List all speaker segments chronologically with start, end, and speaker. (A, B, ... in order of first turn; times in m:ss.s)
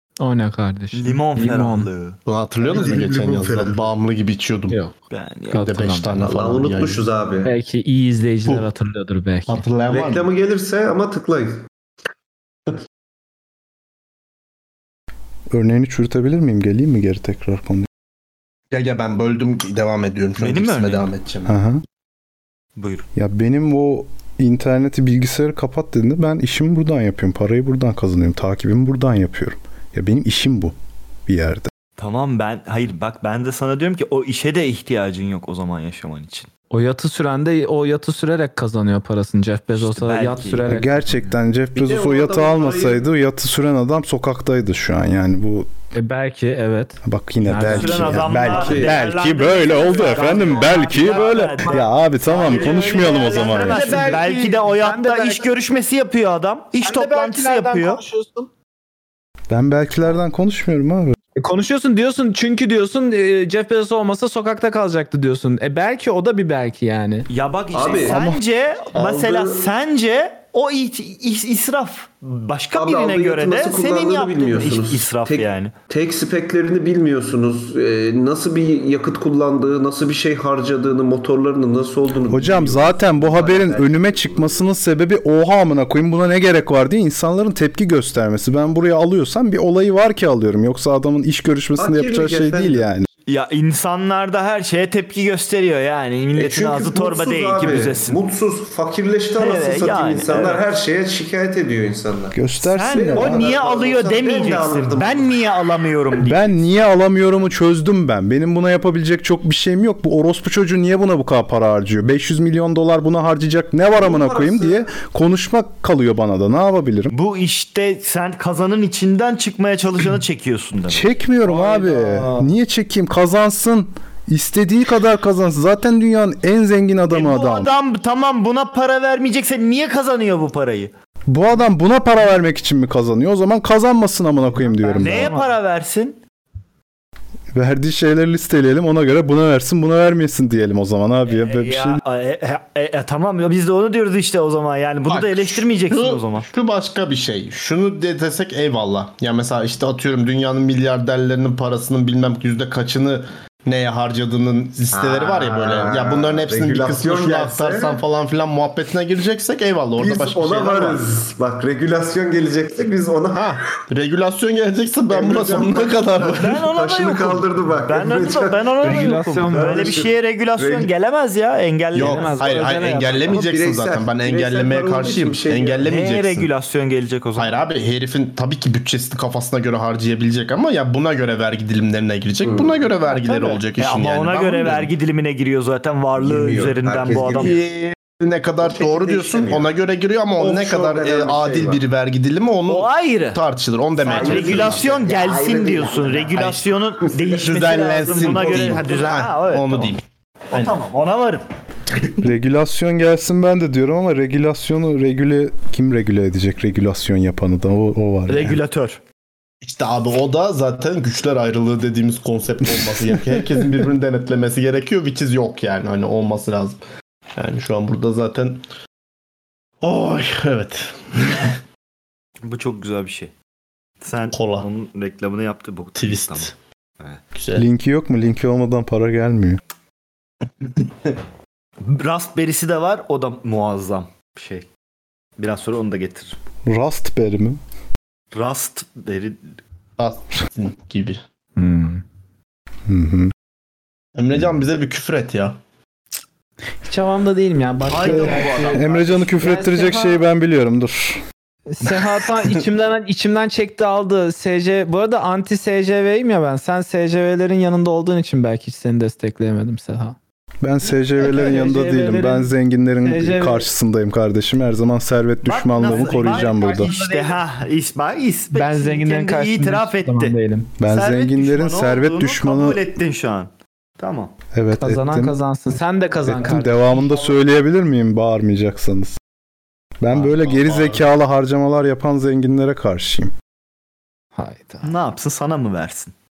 0:00.2-0:01.9 A
0:00.9-0:02.2 B
0:02.3-0:04.8 C
0:02.6-0:03.8 D
0:05.1-0:05.6 B
0:05.5-0:06.2 A
0:05.6-0:07.1 C
0:06.2-0:07.5 D
0:07.4-0:09.6 A
0:09.5-0:10.3 C
0:09.9-0:11.7 D
0:15.5-0:17.9 E
0:18.7-0:21.5 C
0:20.4-0:21.1 B
0:21.4-0:21.8 E
0:22.8-0:23.1 B
0:23.1-0:30.7 E
0:31.3-0:31.7 E
0:32.0-0:36.5 B
0:36.7-0:41.4 A
0:39.7-0:40.7 B
0:40.7-0:45.7 E
0:41.8-0:43.0 D
0:45.9-0:48.6 A
0:47.0-0:54.1 E
0:47.6-0:58.0 B
0:48.5-0:49.0 D
0:49.7-0:51.8 A
0:52.5-0:55.5 A
0:56.8-0:58.5 A
0:59.5-1:01.1 E
1:01.4-1:07.3 A
1:07.3-1:15.7 B
1:07.7-1:08.2 D
1:08.1-1:08.4 E
1:08.9-1:09.7 D
1:12.7-1:24.7 D
1:22.3-1:33.1 E
1:31.8-1:32.9 D
1:33.3-1:38.2 B
1:36.4-1:42.4 D
1:39.4-1:40.6 B
1:42.3-1:43.5 E
1:42.6-1:46.5 B
1:42.9-1:45.4 D
1:46.2-1:57.1 E
1:54.0-1:54.8 D
1:57.1-2:01.1 B
2:00.9-2:07.7 E
2:07.1-2:10.9 B
2:11.3-2:15.4 E
2:14.6-2:15.6 A
2:15.0-2:16.2 B
2:17.5-2:22.0 E
2:21.3-2:26.5 B
2:25.1-2:41.0 C
2:34.9-2:38.0 D
2:40.0-2:43.6 D
2:43.4-2:46.6 C
2:45.1-2:50.9 D
2:46.4-2:52.4 B
2:48.8-2:50.0 A
2:51.9-2:56.5 C
2:51.9-2:53.4 A
2:53.3-2:55.8 D
2:55.9-2:57.5 B
2:57.4-3:04.9 C
3:02.4-3:02.8 D
3:03.1-3:07.6 B
3:06.2-3:07.6 D
3:07.1-3:15.0 C
3:08.7-3:09.7 D
3:08.8-3:09.1 B
3:10.4-3:11.8 D
3:12.7-3:13.4 B
3:14.0-3:19.9 B
3:14.0-3:16.6 D
3:17.2-3:20.8 C
3:18.1-3:18.9 D
3:20.5-3:21.4 B
3:22.2-3:28.6 E
3:28.3-3:29.0 B
3:29.6-3:36.8 C
3:32.6-3:33.6 E
3:37.4-3:38.6 C
3:39.8-3:41.6 C
3:42.4-3:43.3 B
3:44.0-3:47.2 B
3:44.3-3:44.7 C
3:46.0-3:46.5 C
3:47.4-3:47.7 C
3:47.6-3:49.6 E
3:51.8-3:54.7 B
3:55.4-3:56.4 B
3:56.7-3:57.6 E
3:58.3-3:59.6 B
4:00.0-4:01.2 C
4:01.6-4:02.0 A
4:02.9-4:03.3 E
4:04.2-4:05.6 C
4:06.8-4:10.2 A
4:07.9-4:09.4 B
4:08.0-4:11.2 E
4:11.7-4:20.2 A
4:20.6-4:27.0 E
4:21.2-4:23.7 A
4:25.4-4:34.4 B
4:25.9-4:27.4 A
4:28.5-4:30.7 A
4:30.8-4:32.8 E
4:34.5-4:35.4 E
4:34.8-4:37.2 A
4:36.2-4:39.2 E
4:40.0-4:43.3 E
4:40.1-4:41.0 C
4:44.4-4:44.9 A
4:44.8-4:46.1 B